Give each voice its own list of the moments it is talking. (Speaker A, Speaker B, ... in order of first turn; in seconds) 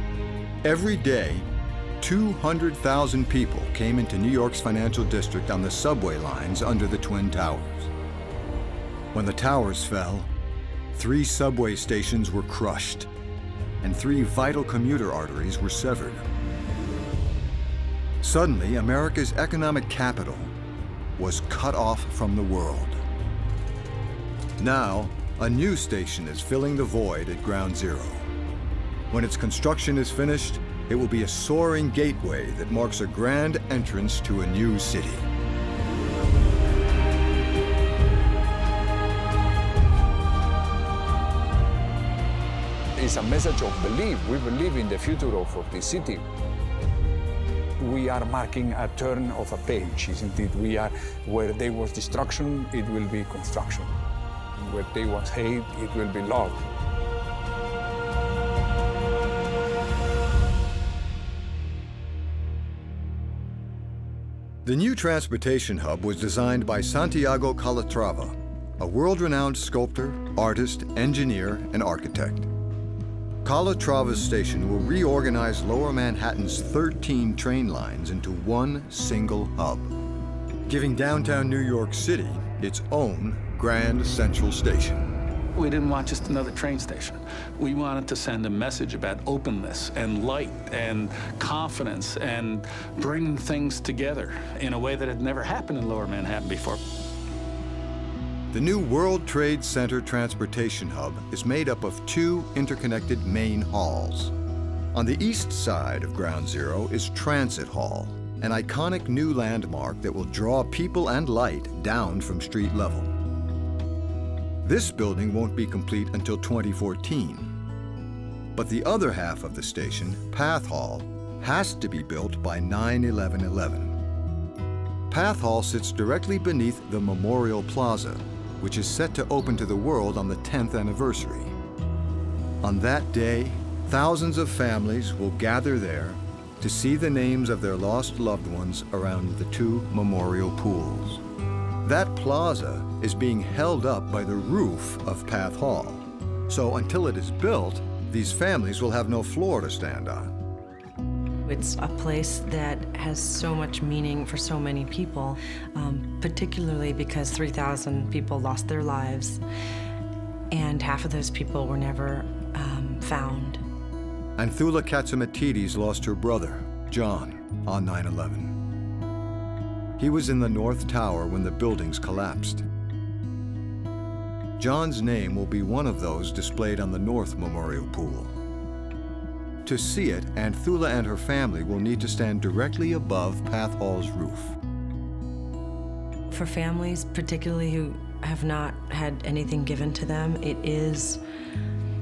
Speaker A: 0.6-1.5, 2.0-7.9, 9.1-10.3, 10.9-13.1, 13.8-16.3, 18.2-20.5, 21.2-23.0, 24.6-28.3, 29.1-35.3, 64.7-72.5, 73.4-79.9, 80.7-85.1, 98.5-104.3, 104.9-113.1, 114.6-117.5, 118.5-124.0, 125.1-131.6, 132.6-141.2, 141.8-150.3, 164.4-168.5, 170.0-172.7, 174.6-178.3, 179.7-184.6
Speaker B: 43.0-46.2, 47.8-53.9, 54.6-56.6
Speaker C: 85.6-96.8
Speaker D: 151.4-159.4, 160.5-163.6, 186.3-191.2